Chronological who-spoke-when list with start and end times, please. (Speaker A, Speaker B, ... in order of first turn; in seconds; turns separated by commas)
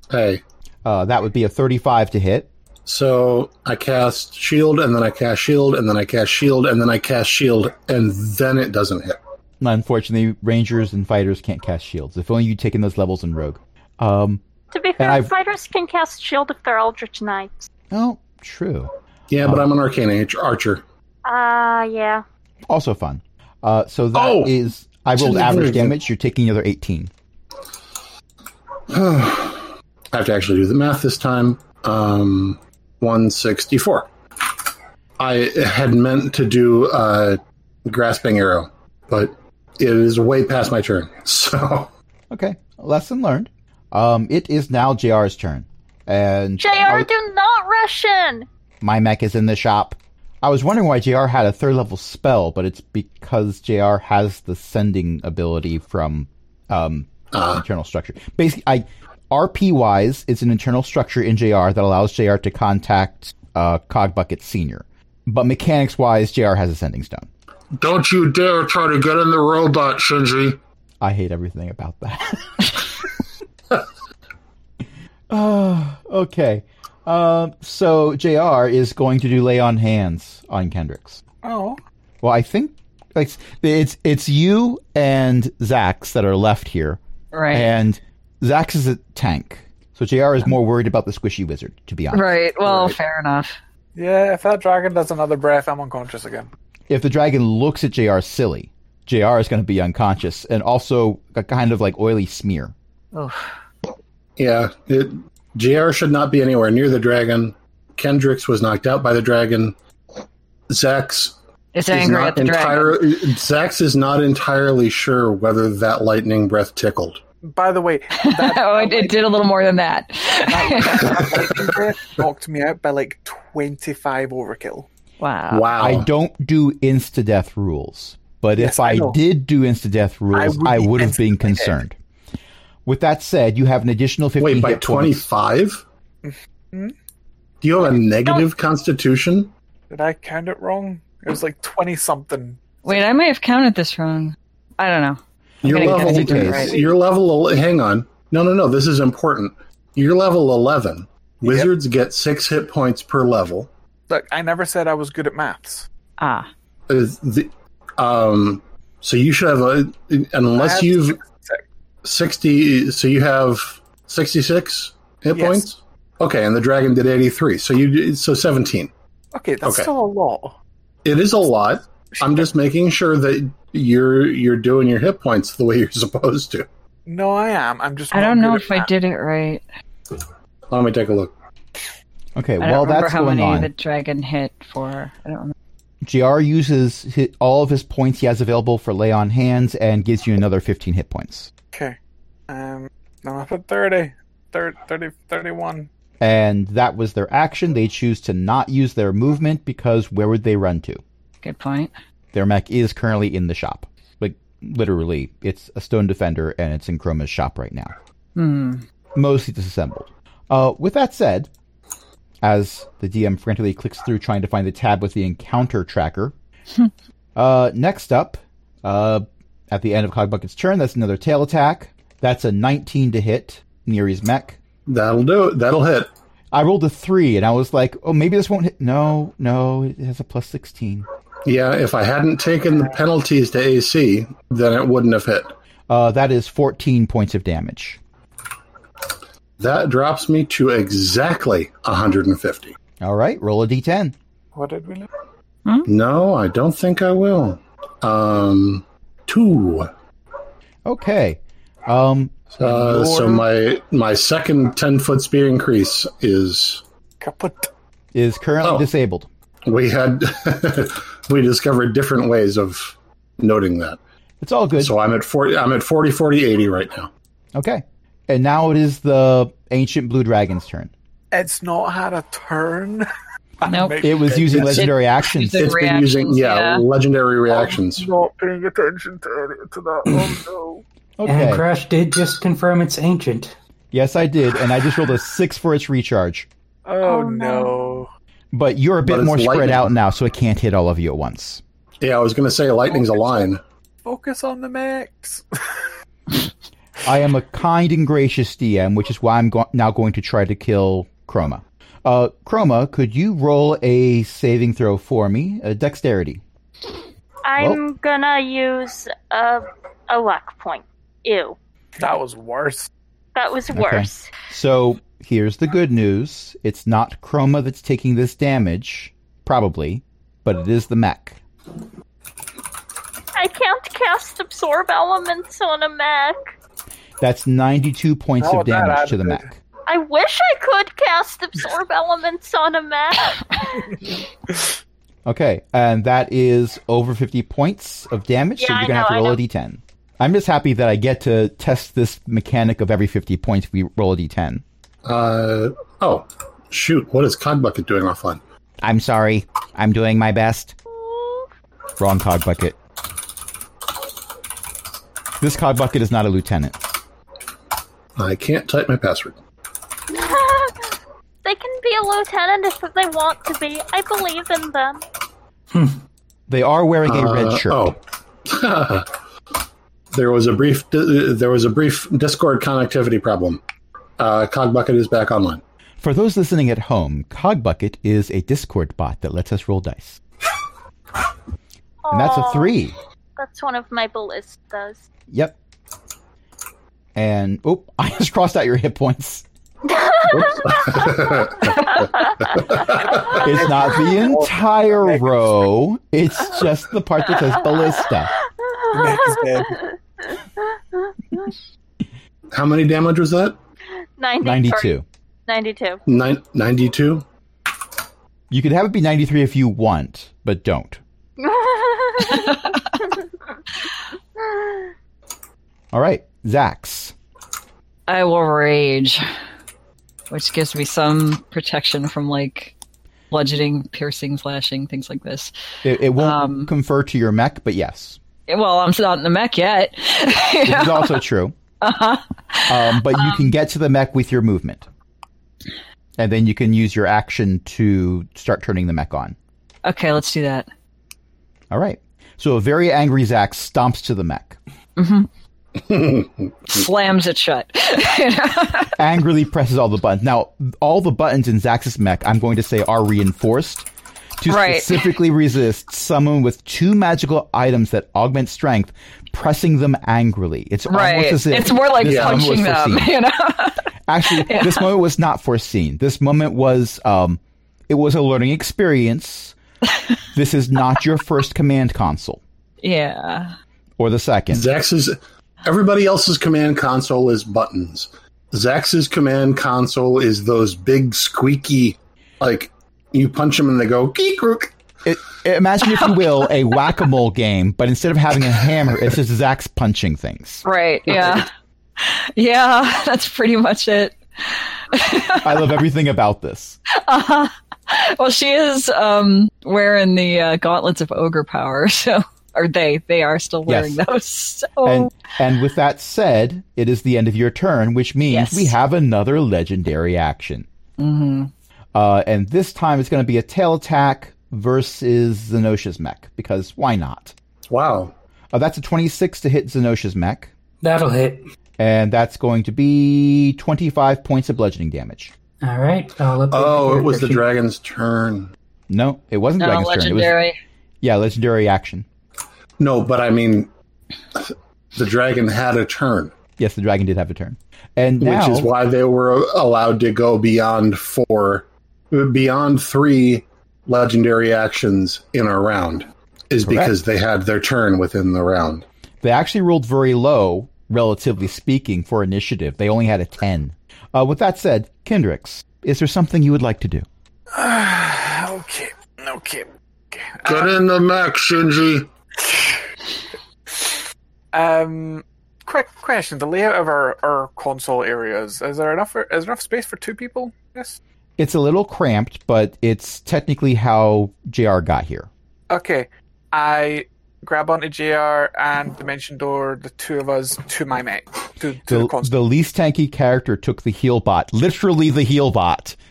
Speaker A: 0.1-0.4, Speaker B: 0.8-2.5, Speaker A: 2.9-9.2, Speaker B: 9.6-14.4, Speaker C: 14.7-17.7, Speaker B: 15.0-15.3, Speaker B: 17.9-18.9, Speaker A: 19.3-20.8, Speaker B: 19.4-19.7, Speaker C: 21.2-22.2, Speaker B: 22.7-27.1, Speaker A: 24.1-24.5, Speaker A: 25.1-26.0, Speaker A: 28.9-34.1, Speaker A: 35.2-41.9, Speaker B: 42.3-47.1, Speaker C: 46.6-48.5, Speaker B: 48.8-67.3, Speaker A: 57.3-57.6, Speaker A: 67.8-70.6, Speaker B: 71.0-72.9, Speaker B: 75.3-81.2, Speaker D: 81.4-81.8, Speaker B: 82.2-87.0, Speaker E: 87.3-87.7, Speaker B: 87.5-93.0, Speaker E: 92.1-93.6, Speaker D: 94.0-96.5, Speaker B: 96.9-102.7, Speaker E: 103.1-103.5, Speaker A: 104.4-109.8, Speaker A: 110.7-111.4, Speaker E: 111.7-113.2, Speaker A: 111.9-117.2, Speaker D: 117.5-119.3, Speaker E: 118.2-121.3, Speaker D: 120.4-124.9, Speaker E: 125.2-125.8, Speaker A: 125.5-126.1, Speaker B: 125.8-131.9, Speaker D: 128.6-129.2, Speaker D: 130.3-131.8, Speaker B: 132.8-135.3, Speaker A: 134.4-135.8, Speaker D: 136.2-136.9, Speaker A: 137.6-139.5, Speaker D: 139.9-142.6, Speaker E: 142.8-146.8, Speaker A: 145.6-153.7, Speaker B: 145.7-146.7, Speaker D: 146.6-146.9, Speaker D: 151.4-151.7, Speaker D: 154.1-155.9, Speaker E: 156.2-156.5, Speaker A: 156.9-161.2, Speaker D: 160.5-161.7, Speaker A: 162.0-168.9, Speaker D: 165.3-165.7, Speaker D: 169.3-170.6, Speaker A: 169.6-169.9, Speaker A: 171.1-176.7, Speaker D: 172.2-172.5, Speaker D: 177.1-178.9, Speaker E: 178.1-179.6, Speaker A: 180.7-181.3, Speaker B: 182.3-183.7, Speaker E: 182.6-185.5, Speaker B: 186.0-191.5, Speaker D: 191.7-192.0, Speaker D: 192.5-195.9, Speaker B: 196.2-201.0, Speaker E: 201.4-201.9, Speaker B: 202.3-207.9, Speaker E: 208.4-208.8, Speaker B: 209.2-211.5, Speaker B: 212.4-216.3, Speaker B: 217.3-224.6, Speaker A: 224.9-226.1, Speaker B: 226.5-231.1, Speaker A: 231.5-235.5, Speaker B: 235.9-238.0, Speaker A: 239.6-242.8, Speaker B: 243.0-244.2, Speaker D: 244.6-245.1, Speaker A: 245.9-249.9, Speaker B: 250.8-253.4, Speaker A: 252.6-256.8, Speaker D: 257.2-257.7, Speaker B: 258.1-259.3, Speaker A: 259.7-264.0, Speaker B: 264.4-264.9, Speaker A: 264.8-267.1, Speaker B: 267.6-270.9, Speaker D: 271.3-273.1, Speaker D: 273.6-274.9, Speaker E: 273.6-276.9, Speaker B: 274.0-275.8, Speaker A: 275.6-278.1, Speaker D: 277.5-280.8, Speaker F: 280.1-280.4, Speaker B: 281.2-281.6, Speaker F: 281.3-283.6, Speaker B: 283.9-286.5, Speaker D: 286.9-288.1, Speaker C: 287.0-288.0, Speaker B: 288.5-291.6, Speaker A: 289.1-289.9, Speaker A: 292.0-293.6, Speaker D: 293.0-293.5, Speaker D: 294.1-295.8, Speaker B: 297.0-306.4, Speaker C: 307.4-311.6, Speaker D: 312.0-312.9, Speaker C: 313.4-314.3, Speaker B: 313.7-321.4, Speaker C: 323.4-326.5, Speaker B: 327.2-329.5, Speaker D: 328.4-329.5, Speaker C: 329.9-333.9, Speaker B: 335.2-344.6, Speaker C: 338.6-339.4, Speaker A: 345.1-348.4, Speaker B: 348.8-350.8, Speaker C: 350.9-351.5, Speaker B: 352.0-352.8, Speaker B: 355.4-357.0, Speaker A: 358.2-359.4, Speaker C: 360.1-360.9, Speaker C: 361.4-365.0, Speaker F: 365.7-366.0, Speaker B: 366.5-367.9, Speaker A: 367.1-369.1, Speaker A: 370.1-373.6, Speaker A: 374.2-375.6, Speaker B: 376.0-380.2, Speaker C: 382.0-382.8, Speaker B: 382.1-383.0, Speaker C: 383.4-385.1, Speaker B: 385.3-385.6, Speaker B: 387.1-389.5, Speaker C: 389.9-390.8, Speaker A: 390.3-393.4, Speaker C: 392.0-392.5, Speaker D: 393.2-395.3, Speaker B: 393.3-398.3, Speaker C: 398.8-400.5, Speaker D: 398.9-399.9, Speaker A: 402.5-403.6, Speaker C: 404.2-404.9, Speaker B: 404.4-405.1, Speaker C: 405.5-406.0, Speaker A: 406.1-407.2, Speaker B: 408.5-411.0, Speaker C: 411.4-412.6, Speaker B: 415.9-417.1, Speaker E: 418.1-419.3, Speaker E: 420.3-422.7, Speaker E: 423.3-425.5, Speaker B: 425.8-428.2, Speaker E: 426.2-426.7, Speaker E: 428.5-431.2, Speaker B: 430.6-431.6, Speaker E: 431.8-433.5, Speaker B: 432.7-434.9, Speaker B: 436.2-439.4, Speaker E: 439.9-440.7, Speaker B: 441.7-444.6, Speaker E: 445.0-445.3, Speaker A: 445.8-446.5, Speaker E: 446.7-449.0, Speaker B: 449.0-453.9, Speaker B: 454.4-463.1, Speaker E: 454.5-455.1, Speaker E: 460.9-463.9, Speaker A: 462.0-462.5, Speaker B: 464.1-469.6, Speaker E: 464.4-464.9, Speaker B: 470.3-472.4, Speaker E: 472.8-473.6, Speaker B: 474.0-474.7, Speaker A: 474.5-484.7, Speaker B: 485.1-490.6, Speaker E: 490.6-495.7, Speaker B: 495.4-496.8, Speaker E: 496.9-505.1, Speaker B: 503.7-504.0, Speaker B: 504.8-510.7, Speaker E: 508.3-508.7, Speaker E: 511.0-511.5, Speaker B: 511.9-517.3, Speaker A: 517.7-518.1, Speaker B: 518.5-520.5, Speaker F: 520.8-521.4, Speaker B: 521.8-525.3, Speaker F: 525.6-527.5, Speaker A: 526.5-528.5, Speaker B: 528.9-530.4, Speaker E: 529.6-530.6, Speaker B: 531.0-532.0, Speaker A: 532.8-533.7, Speaker A: 534.4-536.3, Speaker B: 536.6-538.7, Speaker A: 538.2-548.9, Speaker B: 546.6-547.0, Speaker B: 549.2-557.1, Speaker D: 557.5-560.8, Speaker A: 560.5-562.1, Speaker D: 562.5-562.8, Speaker D: 563.7-564.0, Speaker D: 564.5-571.0, Speaker B: 571.4-575.3, Speaker D: 575.7-582.4, Speaker B: 581.9-586.0